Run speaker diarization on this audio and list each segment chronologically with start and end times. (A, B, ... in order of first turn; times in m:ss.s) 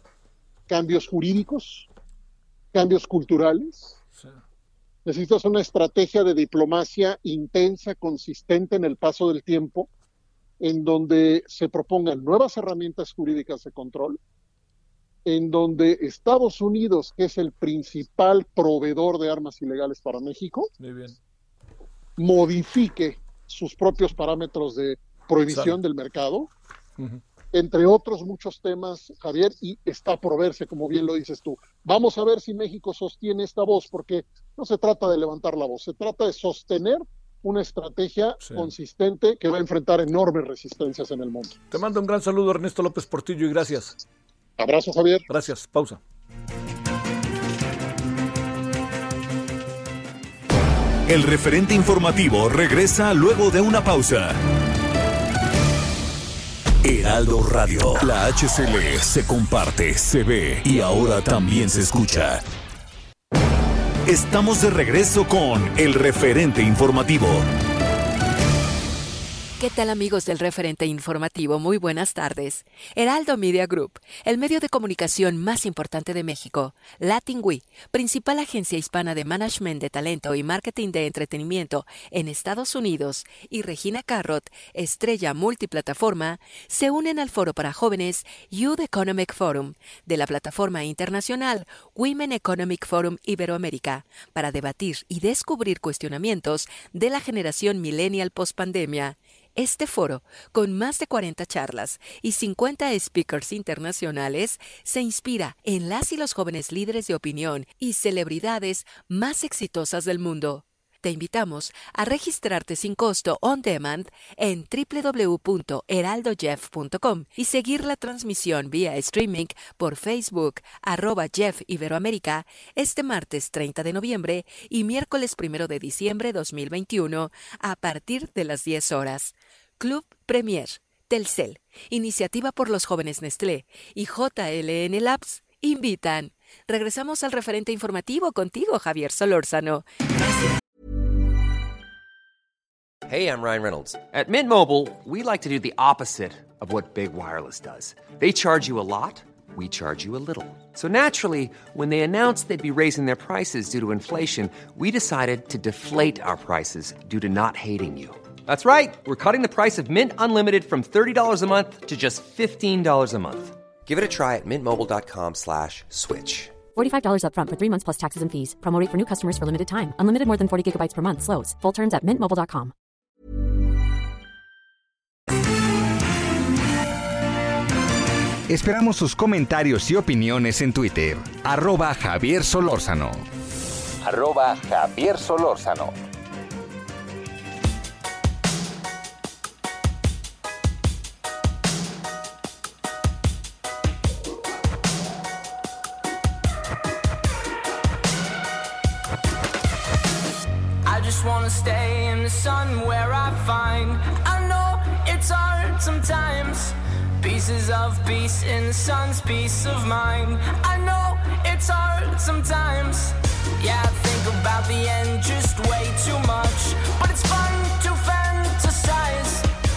0:00.7-0:01.9 A
0:02.7-0:04.0 A
0:05.1-0:09.9 A
0:10.6-0:14.2 A
0:15.3-0:20.7 A
0:20.8-0:21.2 B
0:22.2-0:26.5 A
0:25.5-0:25.8 B
0:27.0-0:27.2 B
0:27.5-0:41.6 A
0:38.4-0:38.7 B
0:41.7-0:44.0 B
0:44.6-0:45.3 A
0:45.3-0:46.0 B
0:51.1-0:54.4 C
0:56.8-1:02.4 C
1:04.1-1:07.5 C
1:09.6-2:20.6 D
2:23.1-2:46.6 E
2:46.7-2:52.7 F
2:58.5-3:03.2 G
3:04.0-3:06.0 H
3:20.9-3:39.5 I